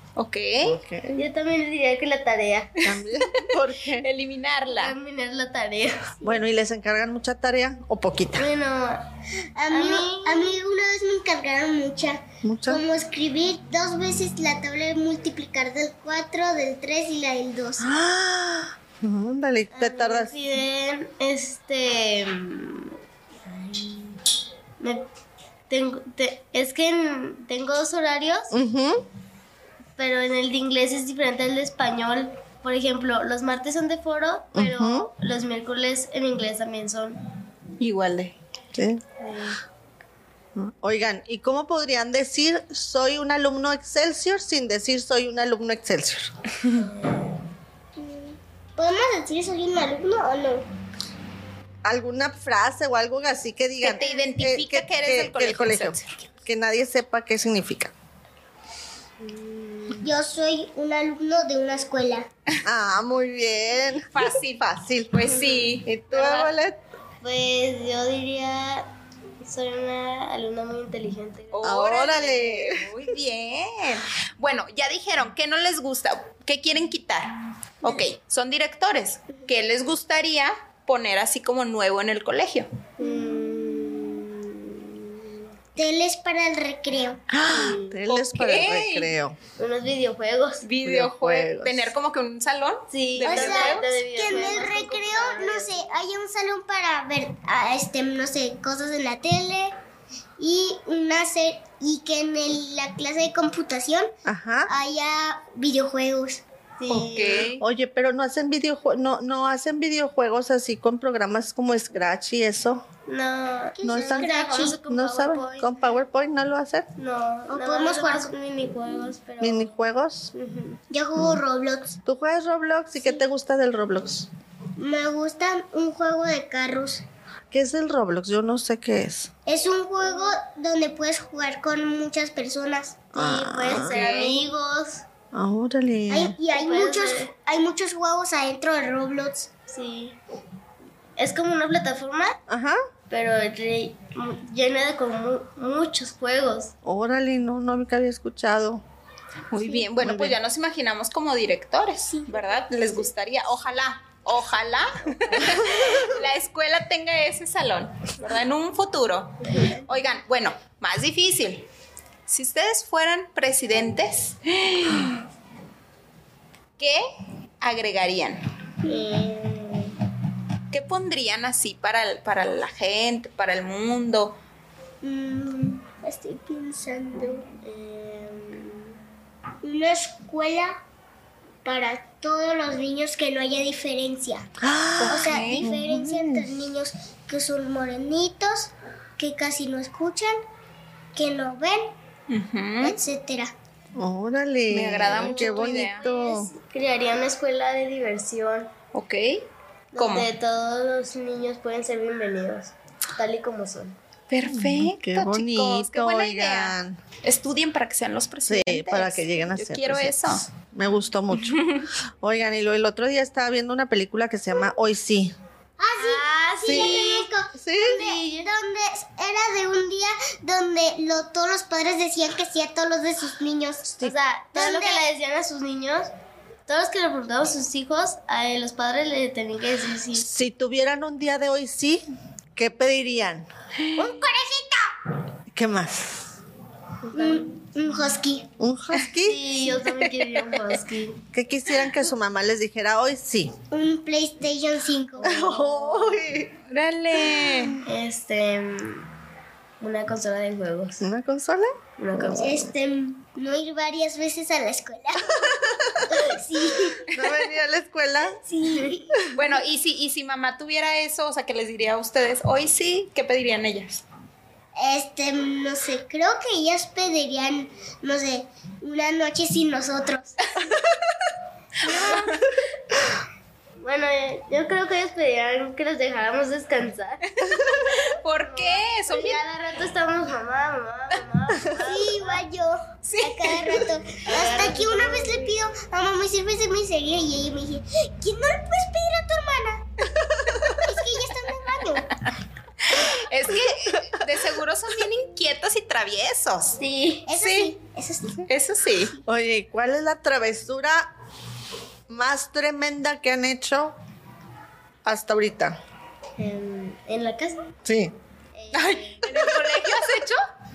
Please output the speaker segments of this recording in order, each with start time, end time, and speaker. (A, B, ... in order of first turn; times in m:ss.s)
0:00.2-0:00.8 A
0:00.6-0:01.2 B
0:01.1-0:03.0 C
0:02.8-0:04.1 B
0:03.9-0:05.0 A
0:04.7-0:06.4 C
0:06.2-0:08.5 B
0:08.4-0:09.0 C
0:09.6-0:17.9 D
0:09.7-0:10.6 C
0:12.4-0:12.8 B
0:17.8-0:20.4 B
0:19.7-0:22.9 C
0:23.5-0:24.2 C
0:24.8-0:25.1 C
0:25.7-0:28.5 C
0:28.5-0:29.0 B
0:30.0-0:37.2 C
0:34.6-0:35.1 B
0:37.8-0:38.4 A
0:38.7-0:39.0 B
0:39.2-0:39.6 C
0:40.6-0:46.3 B
0:48.0-0:50.7 D
0:51.8-0:57.9 B
0:53.8-0:56.3 A
0:59.2-1:00.0 C
1:00.0-1:02.3 D
1:02.6-1:05.3 B
1:04.1-1:05.9 A
1:05.3-1:06.5 C
1:05.8-1:06.8 B
1:07.2-1:08.9 C
1:09.4-1:11.7 C
1:11.5-1:22.7 A
1:11.6-1:12.9 B
1:23.0-1:25.2 C
1:25.8-1:27.2 D
1:27.3-1:29.4 B
1:27.5-1:28.0 C
1:28.1-1:29.1 A
1:29.6-1:30.6 C
1:30.6-1:33.9 A
1:30.8-1:31.9 B
1:32.9-1:35.8 C
1:33.2-1:39.8 D
1:33.3-1:33.7 B
1:40.4-1:44.1 D
1:44.2-1:44.7 B
1:44.7-1:46.4 D
1:46.8-1:47.5 C
1:46.9-1:47.6 A
1:47.6-1:52.8 B
1:53.1-1:55.7 C
1:53.8-1:54.3 B
1:53.9-1:54.8 D
1:54.8-1:56.9 B
1:57.0-1:59.7 C
1:57.5-1:58.3 D
1:59.4-2:00.3 B
2:00.3-2:00.8 C
2:00.9-2:02.0 D
2:02.1-2:04.3 B
2:04.8-2:07.0 D
2:07.5-2:09.3 B
2:09.5-2:13.1 D
2:13.1-2:15.0 C
2:13.1-2:14.0 B
2:13.8-2:14.5 A
2:15.3-2:16.4 B
2:16.1-2:19.5 D
2:16.5-2:17.3 C
2:19.7-2:20.2 C
2:21.2-2:22.4 C
2:22.5-2:22.8 B
2:23.1-2:26.7 C
2:26.8-2:28.8 B
2:29.5-2:41.7 A
2:30.0-2:30.4 B
2:32.1-2:33.1 D
2:35.6-2:36.1 B
2:42.3-2:45.2 A
2:46.8-2:47.0 A
2:47.6-2:48.4 A
2:48.9-2:49.2 D
2:48.9-2:49.9 C
2:50.7-2:54.4 A
2:55.0-2:57.9 D
2:57.6-2:58.9 C
2:59.6-3:00.8 D
3:01.6-3:04.5 D
3:04.6-3:06.5 B
3:05.0-3:05.7 A
3:05.0-3:10.4 D
3:11.1-3:11.9 D
3:12.3-3:13.0 A
3:12.8-3:13.5 D
3:14.0-3:16.5 B
3:14.7-3:16.1 A
3:15.2-3:18.7 C
3:18.9-3:20.3 A
3:19.9-3:24.0 C
3:24.3-3:30.4 A
3:24.5-3:27.0 B
3:28.4-3:35.4 B
3:31.4-3:31.9 A
3:35.8-3:44.0 D
3:36.0-3:37.3 C
3:36.6-3:37.0 B
3:37.6-3:38.1 B
3:38.0-3:38.4 C
3:44.0-3:46.1 C
3:44.5-3:45.0 D
3:46.7-3:50.3 C
3:50.2-3:52.0 B
3:52.6-3:53.5 B
3:53.8-3:54.1 A
3:54.0-3:55.1 D
3:55.5-3:56.4 B
3:57.1-3:57.5 C
3:57.1-3:58.5 D
3:58.6-3:59.4 B
3:59.2-4:01.2 C
4:01.3-4:03.6 B
4:03.7-4:05.7 D
4:05.2-4:06.6 B
4:05.3-4:06.1 C
4:06.7-4:07.8 A
4:07.2-4:07.8 B
4:07.8-4:09.1 C
4:09.8-4:11.0 C
4:11.0-4:12.2 B
4:12.0-4:12.6 C
4:12.4-4:17.2 D
4:15.7-4:16.0 B
4:17.1-4:18.4 B
4:18.3-4:19.2 D
4:19.1-4:19.4 B
4:19.3-4:24.0 A
4:24.8-4:30.4 D
4:31.8-4:32.4 C
4:31.9-4:32.4 A
4:33.8-4:42.4 C
4:37.3-4:39.4 A
4:41.8-4:49.8 D
4:43.0-4:43.9 A
4:44.2-4:45.6 C
4:50.4-4:50.7 B
4:50.8-4:52.2 D
4:52.8-4:56.8 A
4:53.6-4:54.3 B
4:56.8-4:57.3 C
4:57.3-4:58.4 D
4:57.3-4:57.7 A
4:58.5-4:59.2 A
4:59.2-5:01.1 B
5:02.1-5:04.0 B
5:05.0-5:05.8 B
5:06.4-5:07.7 C
5:07.8-5:08.2 B
5:08.6-5:09.3 C
5:08.7-5:10.4 A